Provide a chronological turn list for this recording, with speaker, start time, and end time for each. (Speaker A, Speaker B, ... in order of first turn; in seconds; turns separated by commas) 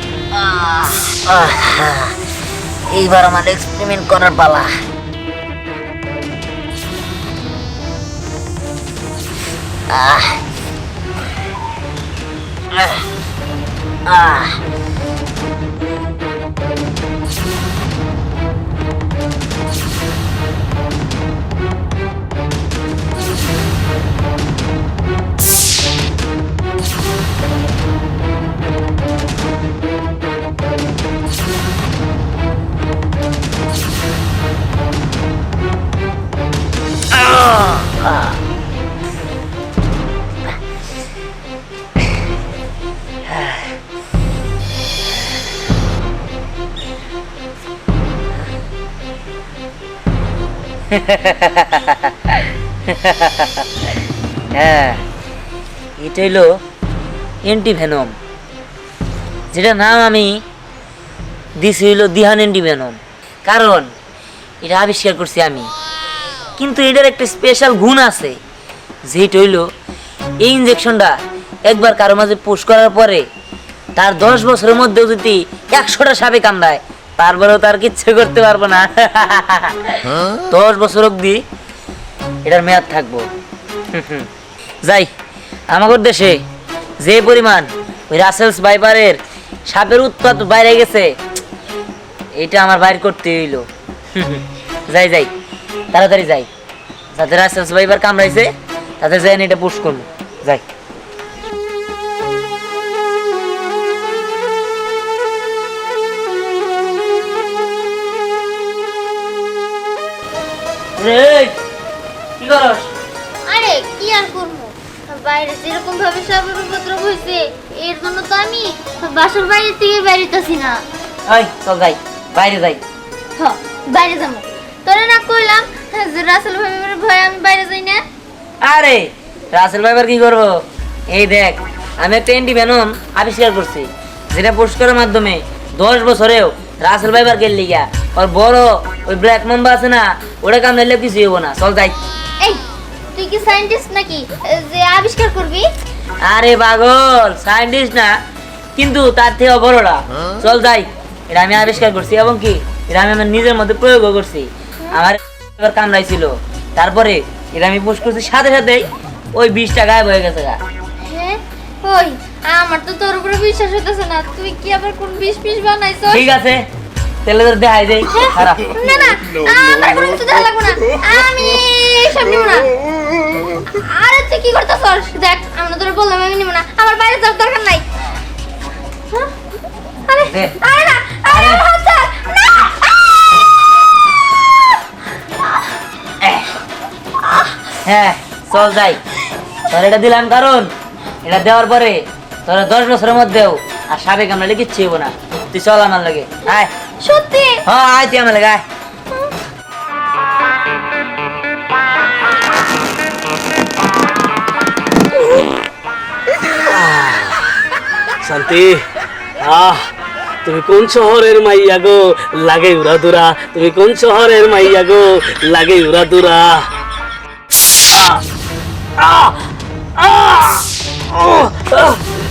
Speaker A: 0.3-2.1, Speaker A: 2.9-4.8, Speaker A: 9.9-10.4, Speaker A: 12.7-13.0, Speaker A: 14.1-14.6, Speaker A: 37.1-38.3, Speaker A: 43.3-43.6, Speaker A: 50.9-53.7, Speaker A: 54.5-55.0, Speaker A: 56.0-56.5, Speaker A: 57.4-58.1, Speaker A: 59.5-60.4, Speaker A: 61.6-63.9, Speaker A: 64.6-65.7, Speaker A: 66.6-68.3, Speaker A: 69.1-69.6, Speaker A: 70.4-71.1, Speaker A: 71.7-73.2, Speaker A: 74.0-81.4, Speaker A: 82.4-83.3, Speaker A: 83.9-84.3, Speaker A: 85.7-86.4, Speaker A: 87.0-89.2, Speaker A: 89.7-91.1, Speaker A: 92.4-95.3, Speaker A: 95.9-96.5, Speaker A: 97.1-100.6, Speaker A: 111.0-111.5, Speaker A: 112.4-112.9, Speaker B: 113.5-120.8, Speaker A: 121.3-122.8, Speaker B: 123.4-128.0, Speaker A: 128.6-141.9, Speaker B: 143.1-145.6, Speaker A: 146.3-148.1, Speaker A: 148.8-160.6, Speaker B: 161.1-166.2, Speaker A: 166.1-166.6, Speaker A: 167.2-168.8, Speaker B: 168.1-172.7, Speaker B: 173.6-177.8, Speaker B: 180.1-183.0, Speaker A: 180.2-180.6, Speaker A: 181.3-181.6, Speaker A: 186.2-186.5, Speaker A: 187.8-189.0, Speaker A: 189.7-190.7, Speaker A: 191.2-196.7, Speaker B: 197.0-197.6, Speaker A: 197.6-198.6, Speaker C: 206.6-207.5, Speaker C: 208.2-208.8, Speaker C: 209.4-209.9, Speaker C: 210.4-216.7, Speaker C: 217.9-218.2, Speaker C: 219.0-222.0